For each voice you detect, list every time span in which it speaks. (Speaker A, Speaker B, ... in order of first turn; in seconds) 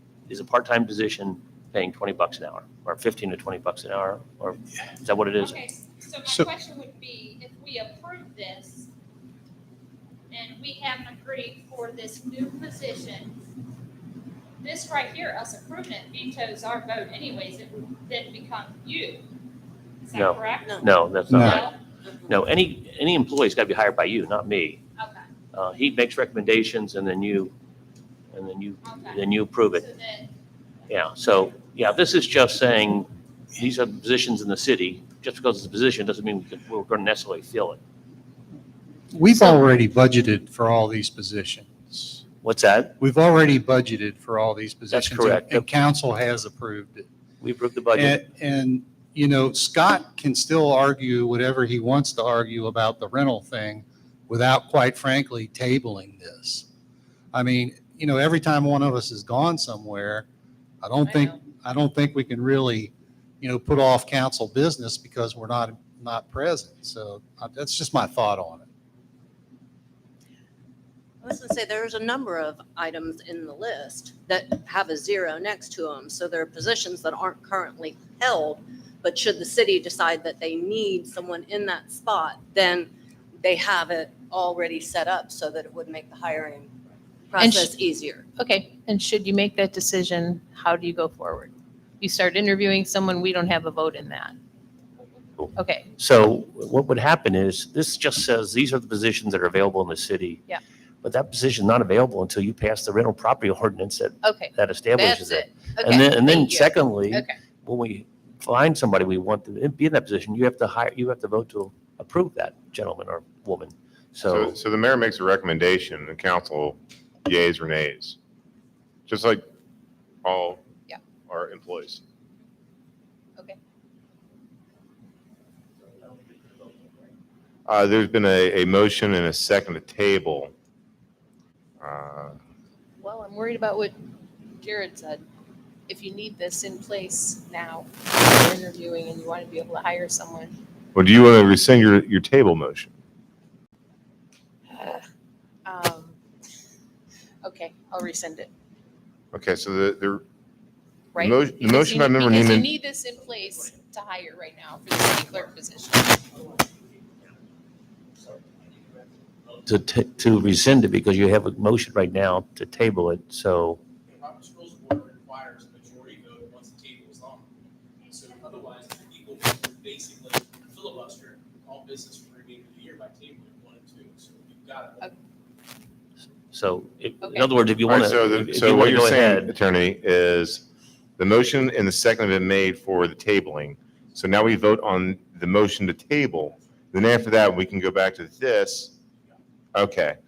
Speaker A: 0.3-5.6, 20.1-21.7, 22.3-24.8, 25.5-27.5, 28.3-29.8, 30.9-37.8, 42.4-43.0, 44.9-45.7, 47.4-48.2, 95.4-100.4, 101.0-114.5, 159.7-163.8, 176.5-179.5
Speaker B: 5.4-8.9, 10.3-13.3, 14.6-19.2, 20.0-21.8, 24.9-25.2, 28.8-30.3, 168.1-168.8
Speaker C: 21.3-21.6, 39.1-42.2, 43.0-47.0, 47.9-56.6, 57.3-60.2, 60.8-68.7
Speaker D: 61.0-61.3, 87.4-87.7, 88.4-94.3, 95.5-95.9, 104.2-107.4, 133.0-133.9, 134.6-135.2, 135.9-140.6, 144.7-145.1, 145.6-146.2, 147.4-148.5, 151.1-156.2, 177.2-177.5
Speaker E: 71.2-86.7, 87.3-88.2
Speaker F: 114.2-118.2, 119.1-119.4, 120.2-120.6, 121.3-122.0, 127.7-130.5, 131.8-132.4, 140.9-142.9, 149.3-150.2, 151.2-152.7, 177.8-180.6, 181.2-188.9, 189.7-190.2
Speaker G: 156.3-156.9, 158.2-159.6, 164.1-167.5, 168.1-175.1